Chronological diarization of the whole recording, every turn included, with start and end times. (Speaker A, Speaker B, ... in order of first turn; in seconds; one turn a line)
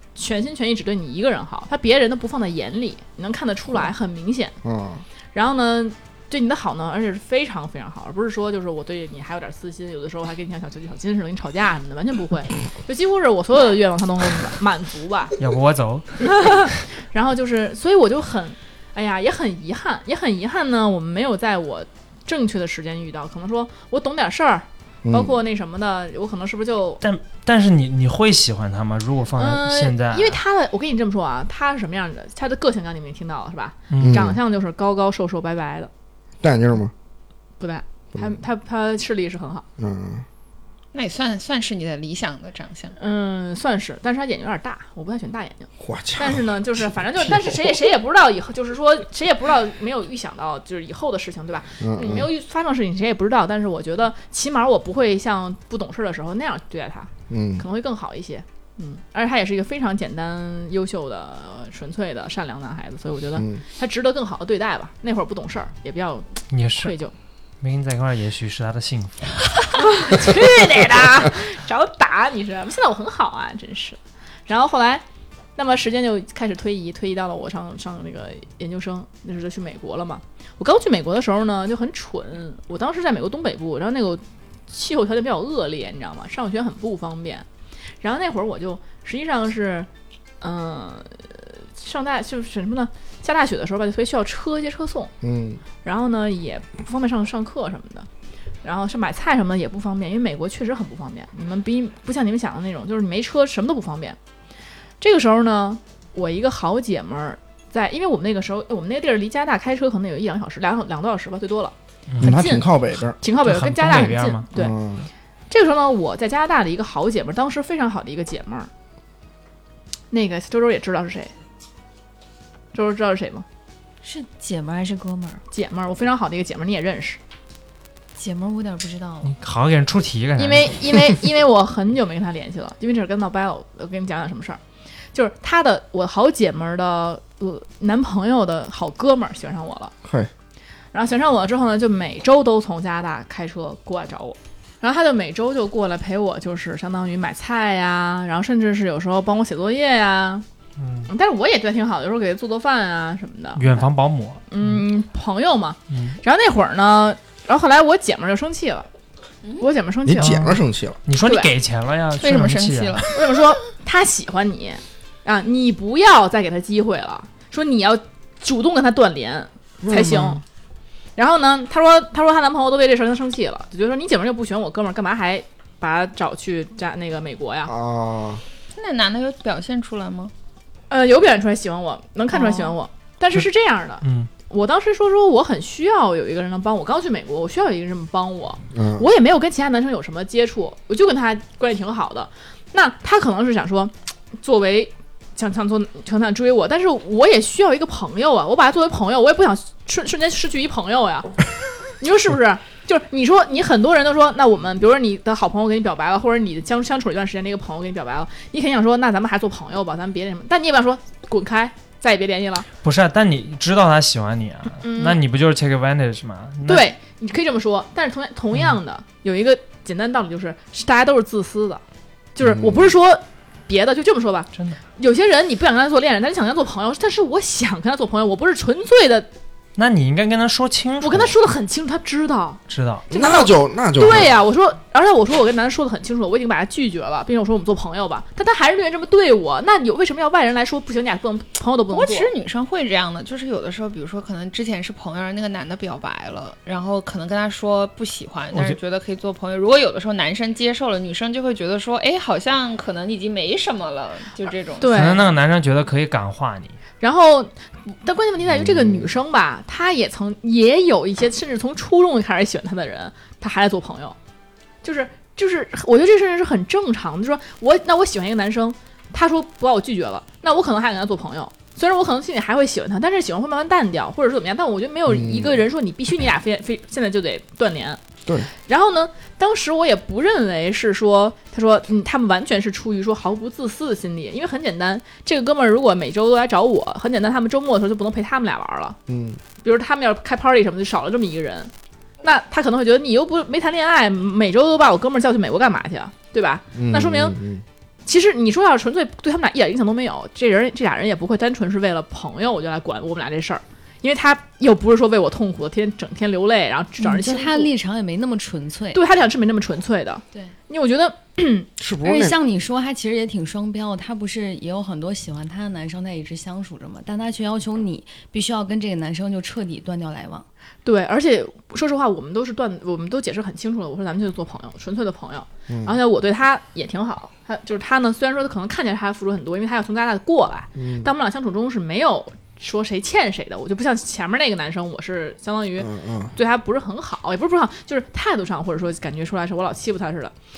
Speaker A: 0.2-4.5
Speaker B: 4.6-5.0
Speaker A: 5.3-15.3
Speaker C: 15.4-16.7
Speaker A: 16.2-27.0
Speaker B: 25.1-25.4
Speaker C: 27.0-30.4
Speaker A: 29.4-35.9
Speaker C: 33.9-34.2
Speaker B: 34.0-34.4
Speaker B: 36.4-36.9
Speaker A: 37.6-39.7
Speaker B: 39.8-40.2
Speaker D: 40.9-43.0
Speaker A: 43.0-67.1
Speaker B: 45.8-46.5
Speaker B: 47.1-47.8
Speaker B: 51.8-52.3
Speaker B: 57.3-57.6
Speaker C: 66.5-67.0
Speaker C: 67.6-69.4
Speaker A: 69.8-75.0
Speaker A: 75.6-87.5
Speaker A: 88.0-89.9
Speaker A: 90.4-95.1
Speaker B: 95.2-95.6
Speaker A: 95.8-98.1
Speaker A: 98.6-104.2
Speaker A: 105.0-112.7
Speaker B: 112.2-113.2
Speaker A: 113.2-114.8
Speaker C: 113.4-114.4
Speaker B: 114.5-115.1
Speaker A: 115.5-118.7
Speaker A: 120.1-121.3
Speaker A: 122.7-123.5
Speaker E: 124.0-125.4
Speaker A: 125.5-127.2
Speaker E: 128.2-129.3
Speaker C: 129.2-131.0
Speaker A: 130.4-134.6
Speaker A: 135.1-139.9
Speaker B: 140.0-140.3
Speaker A: 140.9-150.4
Speaker C: 150.8-151.1
Speaker A: 151.1-153.9
Speaker C: 153.6-154.8
Speaker A: 154.5-158.9
Speaker C: 155.9-156.2
Speaker A: 159.6-160.4
Speaker B: 160.1-161.0
Speaker C: 160.2-163.1
Speaker A: 161.2-161.5
Speaker D: 162.2-163.2
Speaker A: 163.1-170.4
Speaker B: 169.8-170.4
Speaker A: 171.2-177.7
Speaker B: 177.7-178.4
Speaker D: 178.8-180.3
Speaker A: 180.9-201.3
Speaker C: 184.0-184.3
Speaker B: 188.7-189.1
Speaker A: 202.0-212.7
Speaker C: 212.8-216.9
Speaker A: 214.8-215.2
Speaker A: 216.7-221.8
Speaker A: 222.3-229.3
Speaker B: 222.4-222.9
Speaker C: 229.8-231.3
Speaker A: 231.0-232.6
Speaker C: 232.7-233.1
Speaker B: 233.1-234.3
Speaker A: 233.1-242.3
Speaker D: 241.9-254.9
Speaker A: 254.8-255.3
Speaker C: 254.9-256.8
Speaker A: 257.0-264.2
Speaker B: 258.5-259.1
Speaker A: 264.8-289.0
Speaker B: 275.1-275.6
Speaker B: 289.1-289.4
Speaker A: 289.6-291.7
Speaker A: 292.2-297.4
Speaker B: 296.8-297.6
Speaker A: 298.1-307.7
Speaker E: 307.0-309.0
Speaker A: 308.9-311.7
Speaker B: 311.8-312.4
Speaker E: 312.0-320.5
Speaker A: 320.9-340.4
Speaker B: 325.7-326.0
Speaker B: 330.8-331.1
Speaker B: 335.8-336.3